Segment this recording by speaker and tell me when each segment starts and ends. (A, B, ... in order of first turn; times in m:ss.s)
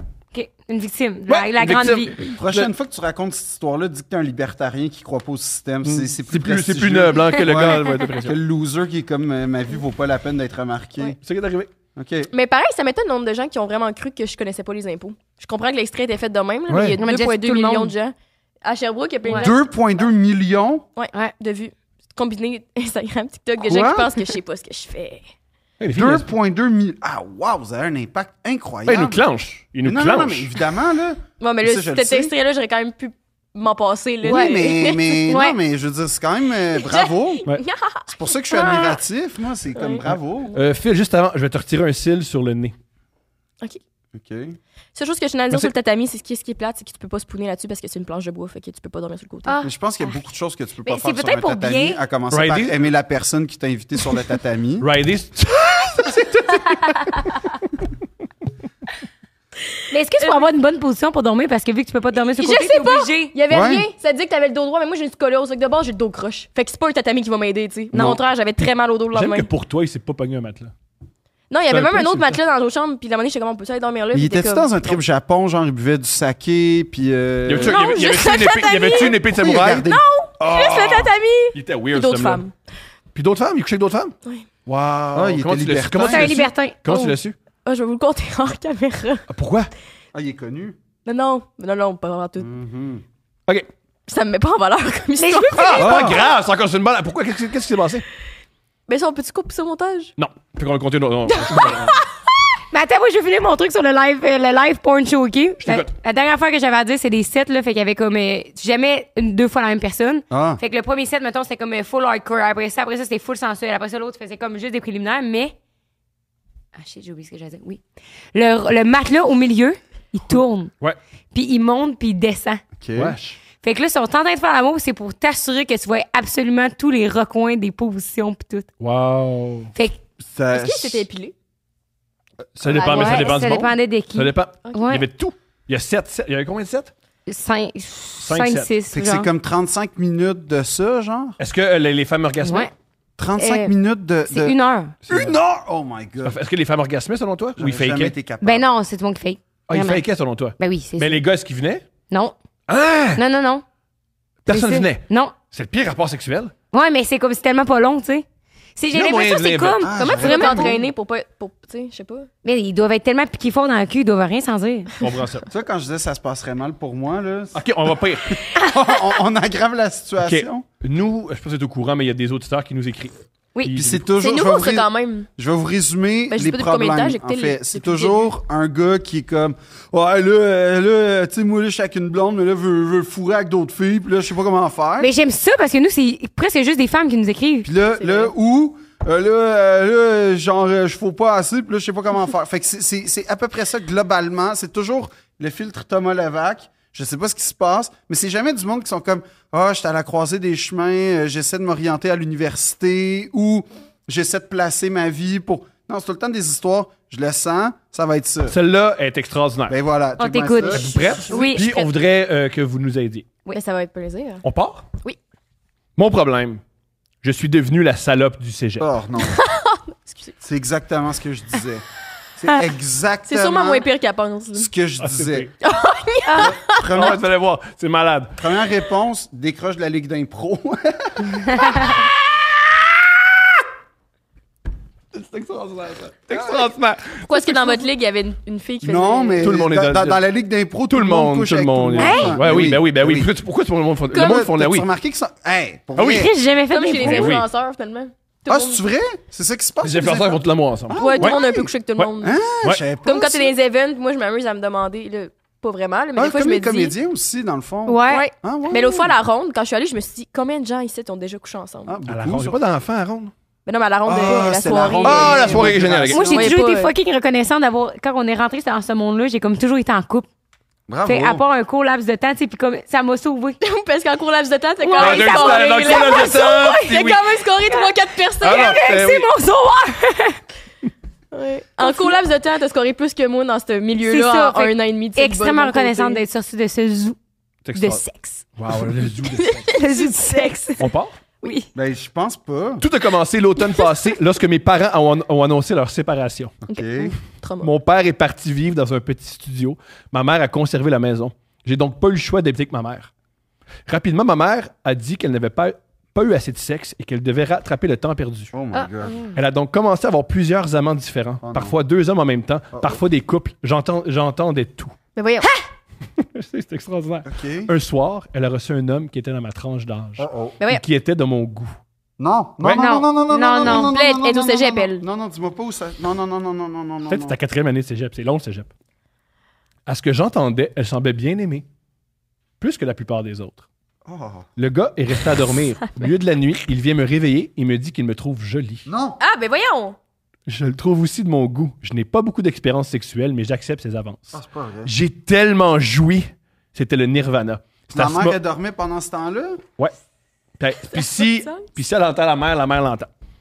0:00.3-0:02.2 A
0:01.3-0:02.7 B
0:02.4-0:11.2 C
0:05.8-0:08.4 B
0:11.2-0:11.7 B
0:12.0-0:12.3 C
0:12.3-0:19.6 D
0:16.7-0:17.0 B
0:17.0-0:17.9 A
0:19.3-0:19.5 A
0:19.4-0:20.8 C
0:21.0-0:25.2 D
0:23.6-0:24.1 C
0:25.8-0:26.3 B
0:26.0-0:29.2 C
0:28.9-0:30.5 B
0:29.8-0:32.3 C
0:31.4-0:35.4 D
0:34.2-0:37.4 C
0:34.3-0:35.6 A
0:36.8-0:39.0 D
0:38.1-0:40.6 C
0:39.8-0:40.6 D
0:40.5-0:42.8 B
0:44.1-0:44.6 C
0:44.9-0:49.6 D
0:49.5-0:50.2 A
0:49.6-0:54.9 C
0:50.8-0:52.0 A
0:52.3-0:52.8 B
0:54.8-0:57.2 B
0:59.9-1:03.3 A
1:00.2-1:00.4 D
1:02.3-1:09.5 D
1:03.5-1:03.9 C
1:07.9-1:08.2 C
1:09.1-1:10.7 B
1:11.5-1:15.0 D
1:11.7-1:12.4 B
1:14.1-1:17.8 C
1:17.5-1:22.4 B
1:17.6-1:19.2 D
1:19.4-1:20.0 C
1:19.8-1:22.6 D
1:23.1-1:24.1 B
1:24.7-1:27.4 B
1:25.1-1:26.4 C
1:26.0-1:26.8 A
1:26.9-1:29.2 D
1:29.3-1:29.7 B
1:30.1-1:30.8 C
1:31.0-1:32.5 D
1:32.4-1:33.0 C
1:34.1-1:36.1 D
1:35.2-1:35.9 A
1:35.7-1:38.1 B
1:35.8-1:36.2 C
1:38.9-1:40.1 D
1:40.2-1:42.0 B
1:41.3-1:42.1 D
1:42.7-1:55.6 A
1:45.6-1:45.9 B
1:50.3-1:50.6 C
1:56.8-1:57.8 A
1:58.3-2:00.7 A
2:01.3-2:02.6 A
2:02.8-2:03.2 C
2:03.0-2:03.4 B
2:03.6-2:08.7 A
2:08.8-2:09.7 B
2:10.2-2:11.1 C
2:10.5-2:11.4 D
2:12.6-2:16.9 B
2:12.7-2:13.5 D
2:12.9-2:15.0 A
2:17.3-2:19.3 A
2:18.2-2:18.7 B
2:18.9-2:21.4 C
2:21.4-2:22.7 B
2:22.4-2:22.7 A
2:23.2-2:24.6 C
2:23.4-2:23.7 A
2:24.3-2:25.0 A
2:25.1-2:25.3 B
2:25.1-2:26.4 C
2:26.2-2:28.1 B
2:27.6-2:28.6 C
2:28.4-2:30.0 A
2:29.7-2:31.8 B
2:30.6-2:31.2 A
2:32.1-2:32.4 A
2:32.7-2:33.2 B
2:33.2-2:33.6 A
2:34.5-2:36.5 B
2:34.5-2:35.4 A
2:36.7-2:40.8 A
2:38.9-2:39.8 B
2:39.8-2:40.8 C
2:40.0-2:42.3 D
2:42.4-2:44.9 A
2:45.0-2:45.5 B
2:45.5-2:47.6 C
2:47.6-2:48.4 B
2:48.3-2:50.6 C
2:50.2-2:54.0 B
2:53.7-3:05.1 C
2:54.2-2:55.3 D
2:56.3-2:58.2 D
3:05.0-3:07.7 A
3:07.6-3:28.6 C
3:08.0-3:08.3 D
3:28.5-3:29.8 B
3:29.7-3:31.2 C
3:30.2-3:31.6 A
3:30.7-3:33.3 B
3:31.0-3:31.9 D
3:33.5-3:34.4 D
3:34.4-3:34.8 B
3:36.0-3:36.6 B
3:37.2-3:38.9 B
3:38.8-3:39.4 C
3:39.2-3:40.4 D
3:40.4-3:41.8 C
3:42.4-3:43.9 C
3:43.3-3:44.7 D
3:44.5-3:45.5 C
3:45.0-3:45.5 B
3:45.6-3:47.1 D
3:46.2-3:46.5 A
3:46.4-3:47.2 C
3:46.9-3:48.4 B
3:48.4-3:51.9 C
3:55.1-3:57.9 B
3:57.3-3:59.4 D
3:58.8-4:03.3 C
3:59.4-4:00.2 B
4:00.9-4:04.9 B
4:02.0-4:02.4 A
4:04.1-4:06.3 C
4:06.0-4:06.3 B
4:06.0-4:07.4 A
4:06.7-4:08.8 D
4:07.0-4:07.5 B
4:08.5-4:13.6 C
4:09.8-4:11.4 B
4:11.0-4:12.4 D
4:12.0-4:12.8 B
4:13.0-4:16.9 D
4:16.2-4:19.1 C
4:17.9-4:18.7 A
4:18.1-4:21.9 D
4:21.9-4:22.6 C
4:22.1-4:23.3 B
4:23.7-4:26.9 D
4:24.1-4:26.5 C
4:25.0-4:26.5 B
4:26.1-4:30.3 A
4:30.9-4:31.4 C
4:31.0-4:33.6 A
4:33.6-4:38.8 D
4:34.8-4:36.8 A
4:35.0-4:37.2 B
4:37.7-4:40.4 A
4:38.4-4:39.3 B
4:41.3-4:46.2 D
4:41.8-4:42.1 A
4:44.0-4:47.2 A
4:47.6-4:48.0 B
4:47.8-4:48.4 A
4:48.6-4:49.7 B
4:49.3-4:50.6 D
4:49.7-4:50.9 A
4:50.8-4:51.2 B
4:51.7-4:52.8 C
4:52.8-4:56.6 B
4:56.6-4:57.2 C
4:56.7-4:57.7 D
4:57.6-5:03.1 B
5:03.9-5:08.5 B
5:08.5-5:09.3 C
5:08.8-5:09.4 A
5:09.3-5:15.0 B
5:11.4-5:11.8 C
5:15.2-5:15.5 D
5:16.2-5:21.8 B
5:17.2-5:17.7 C
5:20.2-5:20.6 C
5:22.2-5:27.4 C
5:22.6-5:23.0 B
5:22.8-5:23.9 A
5:22.8-5:25.0 D
5:27.1-5:28.7 B
5:29.9-5:31.7 B
5:32.6-5:33.7 B
5:34.1-5:34.5 C
5:34.6-5:38.9 B
5:38.9-5:39.2 C
5:39.2-5:40.0 D
5:40.5-5:48.4 B
5:44.3-5:44.9 C
5:47.9-5:49.6 C
5:50.6-5:53.1 B
5:50.9-5:51.6 D